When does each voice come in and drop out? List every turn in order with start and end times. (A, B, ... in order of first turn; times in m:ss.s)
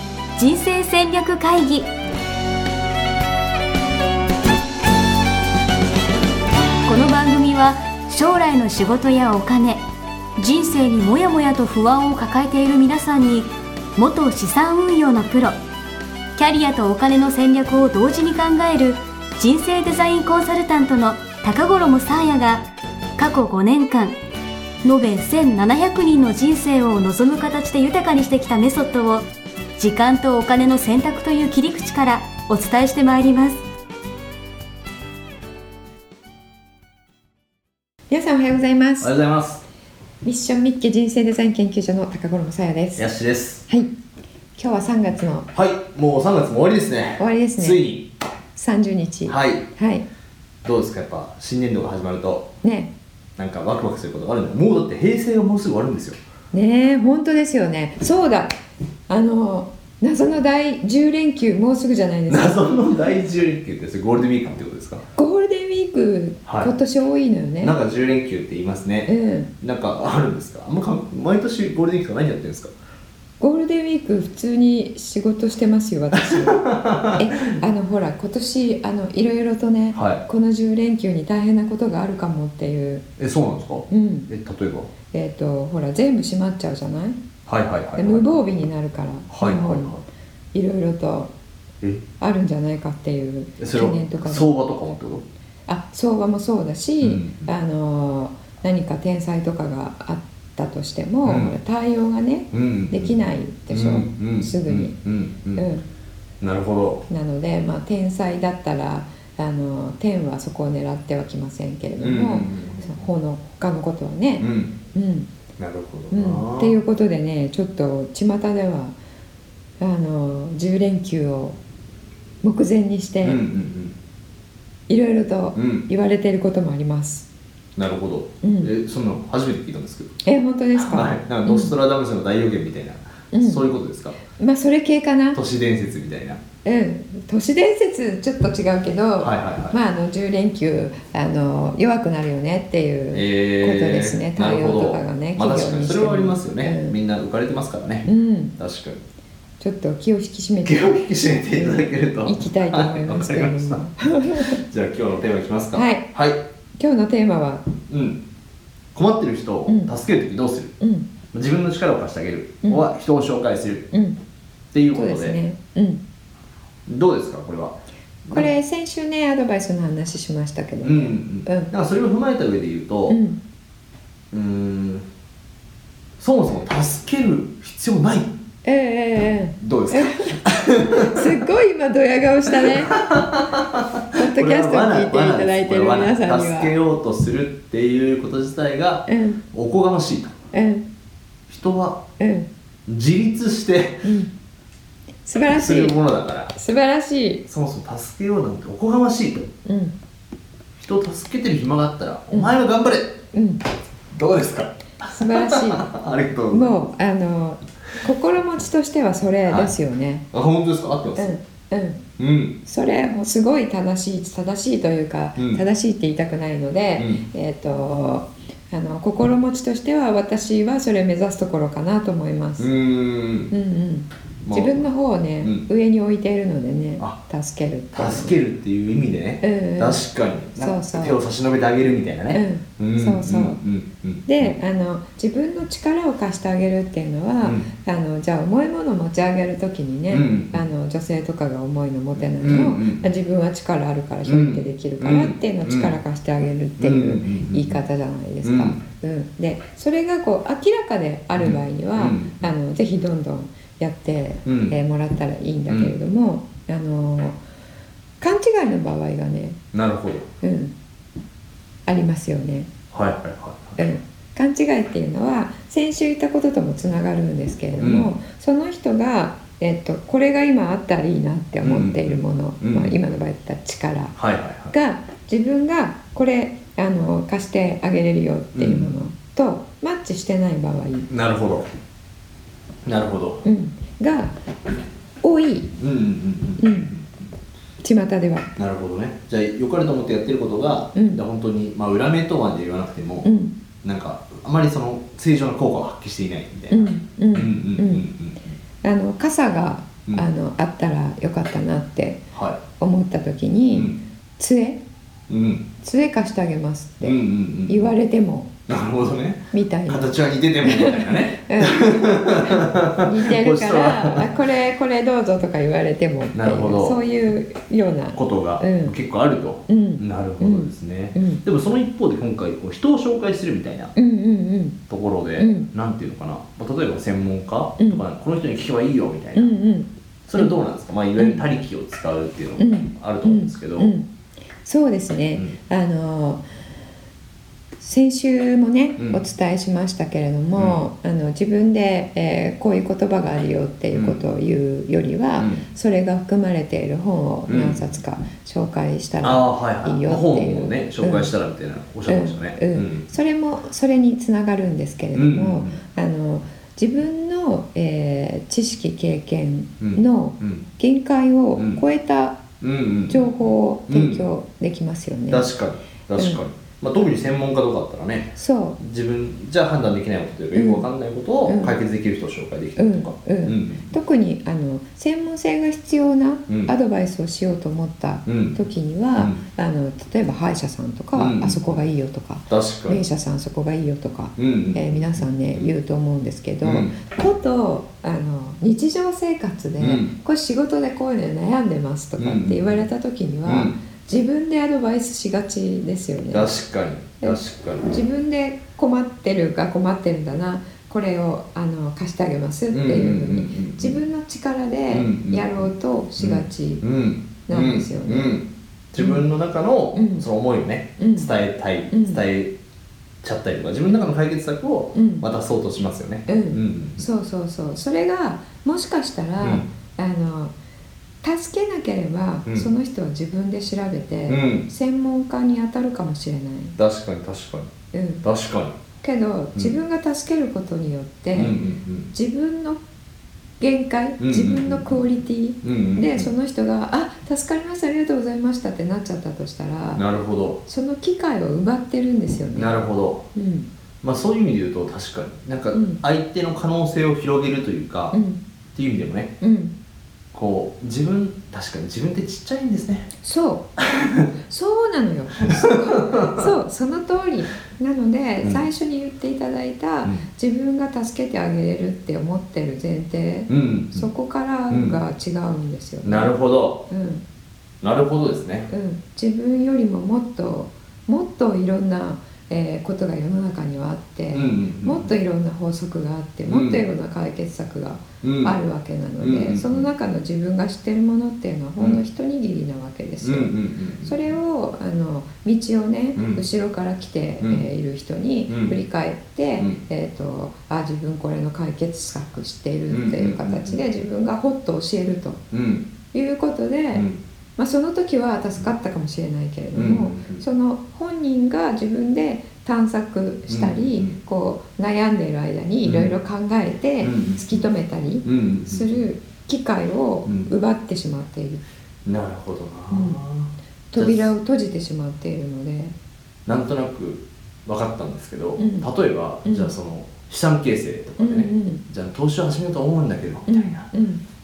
0:00.4-0:01.9 A
0:06.8-0:09.8 A
0:10.4-0:15.6 A
0:16.4-0:22.6 A
0:23.2-0:24.2 A
0:24.8-0:29.2 A
0:29.8-0:33.6 A
0:38.1-0:39.1 B
0:39.0-0:39.6 C
0:40.2-0:43.1 B
0:43.0-0:43.6 C
0:44.6-0:45.5 B
0:45.5-0:48.1 C
0:47.2-0:47.8 B
0:48.6-0:50.1 B
0:49.3-0:49.7 C
0:50.6-0:52.5 C
0:52.6-0:52.9 B
0:53.4-0:56.2 C
0:56.5-0:58.6 B
0:59.1-1:03.1 B
1:02.3-1:05.1 C
1:05.2-1:07.8 B
1:06.5-1:06.7 C
1:07.6-1:09.1 C
1:09.1-1:09.5 B
1:09.6-1:12.7 C
1:13.4-1:16.6 B
1:16.1-1:17.6 C
1:17.2-1:23.1 B
1:19.9-1:20.2 C
1:23.2-1:24.9 C
1:23.9-1:24.3 B
1:25.1-1:27.2 B
1:27.5-1:28.4 C
1:28.0-1:30.0 B
1:29.3-1:30.0 C
1:30.5-1:31.3 B
1:32.2-1:34.5 B
1:33.6-1:35.2 C
1:35.7-1:45.0 B
1:37.0-1:37.5 C
1:41.2-1:41.6 C
1:42.5-1:45.6 C
1:45.6-1:45.8 B
1:46.4-1:47.0 C
1:47.1-1:55.3 B
1:52.0-1:53.1 C
1:54.4-1:54.7 C
1:55.6-1:56.8 C
1:56.1-1:59.0 B
1:59.8-2:01.6 B
2:02.4-2:03.4 B
2:03.2-2:04.0 C
2:04.9-2:07.3 B
2:05.6-2:05.9 C
2:07.8-2:10.2 C
2:08.4-2:08.7 B
2:10.2-2:11.8 B
2:10.8-2:14.2 C
2:13.3-2:13.6 B
2:14.3-2:15.4 B
2:15.4-2:16.4 C
2:16.6-2:27.0 B
2:19.2-2:19.8 C
2:23.1-2:29.0 C
2:28.1-2:28.6 B
2:29.6-2:30.9 B
2:30.6-2:33.8 C
2:31.5-2:34.6 B
2:34.4-2:36.4 C
2:35.7-2:36.1 B
2:36.8-2:37.7 B
2:37.9-2:38.2 C
2:38.9-2:40.7 C
2:39.7-2:39.9 B
2:40.8-2:41.1 B
2:41.3-2:43.9 C
2:43.9-2:44.2 B
2:44.7-2:45.4 C
2:44.9-2:46.0 B
2:46.9-2:48.5 C
2:48.3-2:51.7 B
2:50.8-2:53.2 C
2:53.1-2:53.4 B
2:54.3-2:55.1 C
2:56.2-2:58.3 C
2:58.6-3:03.0 B
2:59.6-3:01.4 C
3:02.5-3:10.4 C
3:04.1-3:06.8 B
3:09.1-3:09.4 B
3:10.5-3:10.9 B
3:11.5-3:12.0 C
3:12.2-3:12.5 B
3:12.9-3:14.1 C
3:14.0-3:14.3 B
3:15.2-3:16.0 B
3:15.5-3:16.5 C
3:16.5-3:17.4 B
3:17.5-3:19.5 C
3:19.7-3:19.9 B
3:20.8-3:23.2 C
3:22.3-3:22.6 B
3:23.3-3:23.6 B
3:24.1-3:26.8 C
3:25.1-3:25.9 B
3:26.5-3:30.3 B
3:29.5-3:29.7 C
3:30.3-3:31.3 C
3:31.2-3:32.0 B
3:32.2-3:32.6 C
3:32.6-3:42.7 B
3:35.4-3:35.6 C
3:37.0-3:37.2 C
3:42.6-3:43.5 C
3:43.5-3:48.4 B
3:44.4-3:44.9 C
3:47.9-3:54.5 C
3:49.4-3:50.0 B
3:50.6-3:51.2 B
3:52.3-3:53.6 B
3:54.3-4:17.4 B
4:00.1-4:00.6 C
4:02.2-4:03.1 C
4:04.2-4:06.0 C
4:06.8-4:07.8 C
4:08.4-4:08.8 C
4:11.4-4:12.5 C
4:14.5-4:14.8 C
4:15.7-4:16.0 C
4:18.2-4:19.6 B
4:19.7-4:20.3 C
4:20.4-4:20.7 B
4:21.9-4:22.7 B
4:22.9-4:23.8 C
4:23.8-4:34.2 B
4:27.8-4:28.2 C
4:31.6-4:33.0 C
4:34.2-4:34.7 C
4:34.7-4:41.1 B
4:38.6-4:38.9 C
4:41.1-4:41.7 C
4:42.8-4:43.4 C
4:43.4-4:44.4 B
4:45.2-4:45.7 B
4:45.8-4:47.3 C
4:46.6-4:46.9 B
4:47.8-4:48.5 B
4:48.6-4:53.3 C
4:51.0-4:51.2 B
4:53.2-4:53.6 B
4:53.8-4:58.4 C
4:56.7-4:58.0 B
4:58.8-5:02.3 B
5:02.3-5:02.6 C
5:02.8-5:04.8 B
5:05.3-5:05.7 C
5:05.8-5:08.5 B
5:07.0-5:07.9 C
5:08.7-5:14.3 C
5:09.5-5:19.0 B
5:16.3-5:17.0 C
5:18.2-5:23.9 C
5:19.7-5:21.4 B
5:24.0-5:24.8 B
5:24.9-5:29.6 C
5:25.4-5:25.7 B
5:27.8-5:28.0 B
5:29.4-5:30.6 B
5:30.3-5:33.9 C
5:31.2-5:31.4 B
5:32.6-5:34.1 B
5:34.6-5:36.4 B
5:37.8-5:51.3 B
5:40.6-5:40.8 C
5:43.9-5:44.2 C
5:45.4-5:45.6 C
5:47.5-5:47.9 C
5:49.2-5:53.1 C
5:52.1-6:02.4 B
5:55.1-5:55.8 C
5:59.8-6:00.6 C
6:01.6-6:01.8 C
6:02.6-6:04.2 C
6:03.1-6:05.5 B
6:05.3-6:13.9 C
6:06.2-6:06.4 B
6:08.4-6:08.8 B
6:10.6-6:10.9 B
6:11.4-6:11.8 B
6:12.8-6:36.5 B
6:18.3-6:18.6 C
6:21.2-6:21.8 C
6:22.5-6:23.0 C
6:24.4-6:25.7 C
6:26.6-6:27.0 C
6:29.8-6:30.1 C
6:32.2-6:32.9 C
6:33.4-6:33.8 C
6:36.3-6:37.9 C
6:37.2-6:46.8 B
6:42.7-6:44.0 C
6:44.9-6:52.5 C
6:47.5-6:48.4 B
6:49.0-6:49.2 B
6:49.9-6:50.2 B
6:51.0-6:51.3 B
6:51.9-6:52.2 B
6:53.2-6:57.1 C
6:54.9-6:55.3 B
6:56.3-7:00.5 B
6:59.4-6:59.7 C
7:01.2-7:06.8 B
7:04.3-7:04.7 C
7:06.8-7:07.7 C
7:07.9-7:08.2 B
7:08.2-7:08.8 C
7:09.0-7:11.6 B
7:11.3-7:12.1 C
7:12.1-7:12.8 B
7:13.6-7:20.0 B
7:14.2-7:15.0 C
7:15.6-7:16.3 C
7:20.0-7:20.6 C
7:20.7-7:22.7 B
7:22.6-7:23.3 C
7:23.4-7:23.7 B
7:24.0-7:28.2 C
7:25.7-7:26.0 B
7:28.1-7:28.4 B
7:28.7-7:29.4 C
7:29.4-7:29.7 B
7:30.3-7:33.1 C
7:33.2-7:46.3 B
7:33.8-7:34.3 C
7:35.4-7:36.5 C
7:43.5-7:44.1 C
7:44.7-7:45.0 C
7:46.0-7:46.8 C
7:46.9-7:47.2 B
7:47.8-7:48.7 C
7:48.7-8:15.4 B
7:54.3-7:55.1 C
7:56.5-7:56.8 C
7:58.2-7:58.6 C
7:59.2-7:59.9 C
8:03.2-8:04.4 C
8:06.2-8:06.4 C
8:08.5-8:08.8 C
8:12.9-8:13.8 C
8:15.5-8:15.9 C
8:16.1-8:17.1 B
8:17.6-8:31.6 B
8:19.8-8:20.4 C
8:23.5-8:24.2 C
8:25.8-8:26.1 C
8:27.0-8:27.7 C
8:28.2-8:29.0 C
8:32.0-8:34.3 C
8:32.9-8:33.2 B
8:33.9-8:35.9 B
8:36.5-8:43.9 C
8:38.6-8:38.9 B
8:39.4-8:39.7 B
8:41.2-8:41.8 B
8:43.5-8:44.2 B